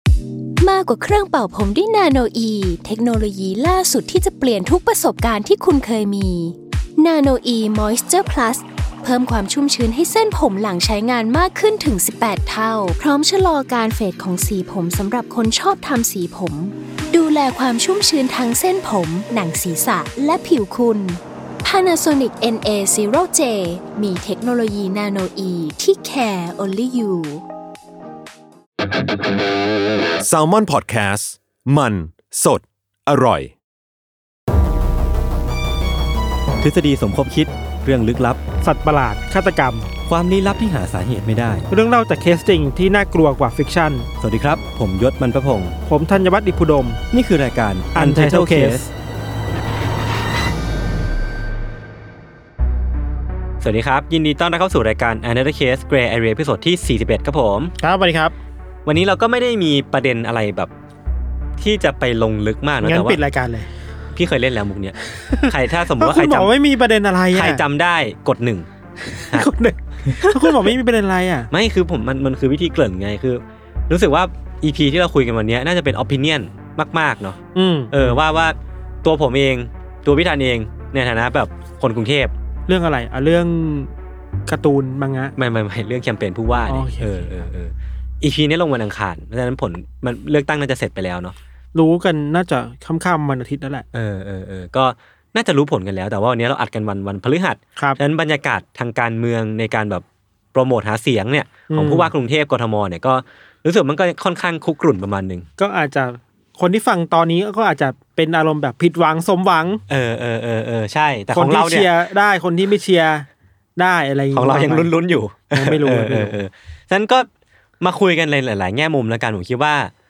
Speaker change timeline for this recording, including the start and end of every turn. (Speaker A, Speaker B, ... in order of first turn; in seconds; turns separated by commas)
Speaker A: 0.6-27.4, Speaker B: 30.2-33.5, Speaker C: 36.6-38.4, Speaker D: 38.6-39.9, Speaker C: 40.0-41.6, Speaker D: 41.7-44.1, Speaker C: 44.2-45.8, Speaker D: 45.9-47.0, Speaker C: 47.1-48.9, Speaker D: 47.9-48.9, Speaker C: 53.6-57.7, Speaker D: 57.8-58.3, Speaker C: 58.8-60.7, Speaker C: 61.6-63.2, Speaker D: 62.8-63.7, Speaker C: 64.1-66.5, Speaker D: 65.1-67.6, Speaker C: 67.3-68.7, Speaker D: 69.0-71.5, Speaker C: 70.0-70.7, Speaker C: 71.5-77.4, Speaker D: 77.5-78.2, Speaker C: 77.9-82.3, Speaker D: 82.7-83.9, Speaker D: 84.5-85.3, Speaker C: 85.3-91.3, Speaker D: 86.7-87.4, Speaker D: 91.7-93.8, Speaker C: 93.9-105.5, Speaker D: 101.7-102.1, Speaker D: 105.6-109.8, Speaker C: 109.9-111.9, Speaker D: 111.3-114.9, Speaker C: 114.3-117.3, Speaker D: 115.5-116.4, Speaker C: 117.8-119.9